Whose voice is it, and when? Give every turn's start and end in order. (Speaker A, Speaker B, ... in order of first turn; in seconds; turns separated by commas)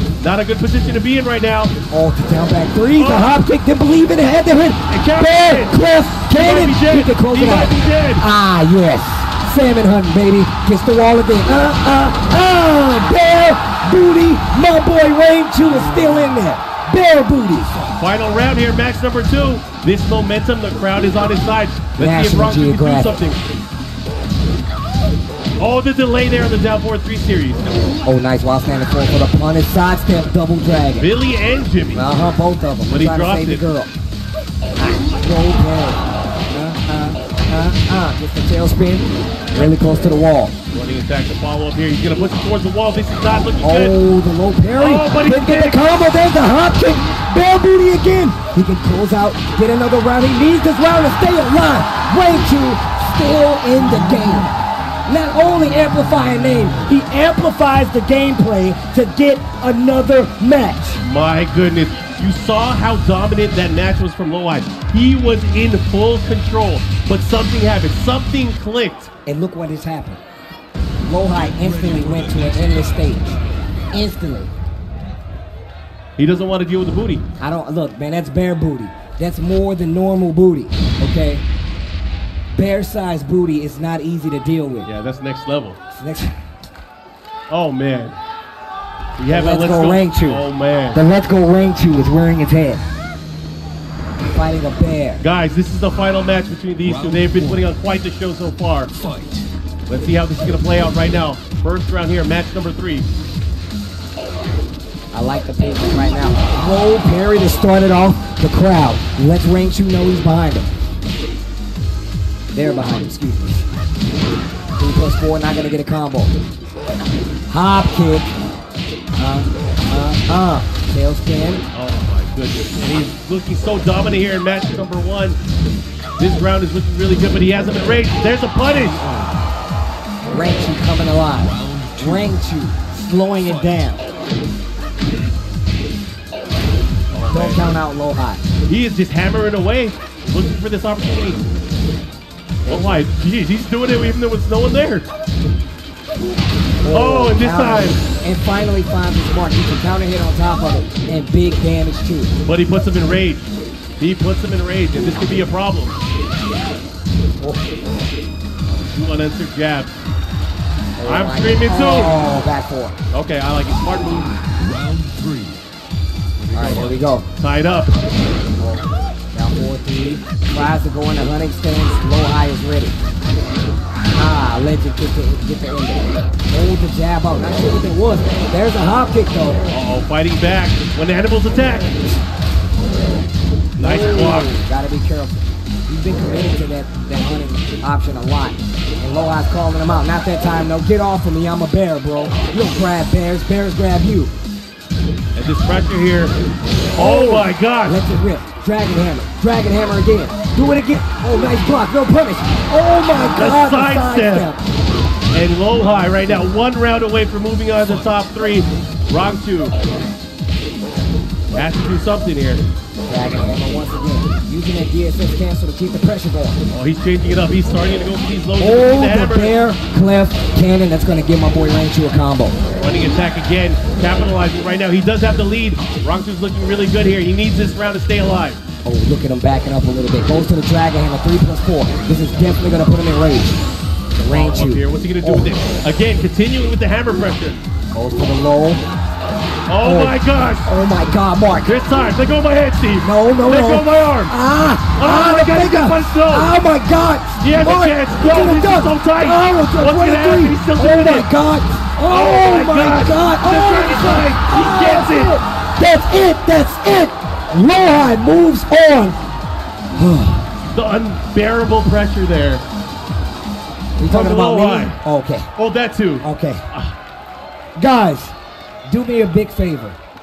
Speaker A: 0.2-1.7, Speaker B: 1.9-17.8, Speaker A: 2.9-3.4, Speaker A: 4.9-8.3, Speaker A: 17.9-23.4, Speaker B: 22.0-23.1, Speaker A: 25.6-27.7, Speaker B: 28.0-31.1, Speaker A: 31.0-32.1, Speaker B: 31.9-33.9, Speaker A: 32.9-33.6, Speaker B: 34.8-40.5, Speaker A: 40.7-44.0, Speaker B: 43.6-54.5, Speaker A: 44.8-45.8, Speaker B: 55.1-61.0, Speaker A: 61.0-69.1, Speaker B: 69.2-70.2, Speaker B: 71.0-73.4, Speaker C: 71.6-72.8, Speaker B: 73.9-74.5, Speaker A: 76.2-77.2, Speaker B: 77.4-81.4, Speaker B: 82.5-84.9, Speaker A: 84.8-85.8, Speaker B: 85.9-86.3, Speaker A: 87.5-88.2, Speaker A: 89.2-91.0, Speaker B: 89.3-92.8, Speaker B: 94.3-95.2, Speaker A: 95.2-98.9, Speaker C: 96.8-97.7, Speaker C: 99.0-99.4, Speaker A: 99.9-103.0, Speaker B: 105.1-110.7, Speaker B: 112.5-113.6, Speaker B: 114.8-116.3, Speaker B: 117.5-118.3, Speaker B: 119.2-121.6, Speaker A: 121.7-125.4, Speaker A: 126.2-129.1, Speaker C: 129.0-129.3, Speaker B: 130.3-134.1, Speaker C: 131.4-132.3, Speaker A: 137.1-137.6, Speaker B: 137.3-138.4, Speaker A: 138.7-141.5, Speaker B: 142.6-143.0, Speaker A: 142.7-145.1, Speaker B: 146.8-152.3, Speaker A: 146.9-148.0, Speaker A: 152.4-153.4, Speaker A: 154.0-156.0, Speaker A: 158.7-159.9, Speaker B: 161.0-163.0, Speaker A: 161.0-162.3, Speaker A: 163.1-164.3, Speaker C: 164.6-165.6, Speaker A: 166.4-168.0, Speaker B: 166.5-167.2, Speaker B: 169.3-173.0, Speaker B: 174.1-179.6, Speaker A: 179.7-182.0, Speaker A: 183.8-184.6, Speaker B: 183.8-194.3, Speaker A: 195.3-196.3, Speaker A: 196.9-198.0, Speaker B: 196.9-204.6, Speaker A: 203.1-204.5, Speaker A: 205.3-209.7, Speaker A: 211.5-212.6, Speaker B: 213.1-216.6, Speaker A: 216.7-219.5, Speaker B: 218.6-222.6, Speaker A: 222.8-228.6, Speaker B: 228.8-233.6, Speaker B: 234.2-235.5, Speaker A: 234.2-237.6, Speaker B: 237.9-238.8, Speaker A: 239.7-240.7, Speaker B: 239.8-241.7, Speaker A: 241.6-244.3, Speaker B: 243.0-259.2, Speaker A: 244.9-246.5, Speaker A: 247.4-251.3, Speaker A: 252.1-255.4, Speaker B: 259.9-260.5, Speaker A: 260.7-262.6, Speaker B: 264.0-265.5, Speaker A: 264.0-265.0, Speaker A: 265.6-266.9, Speaker B: 266.2-266.6, Speaker B: 267.8-268.3, Speaker B: 268.9-270.0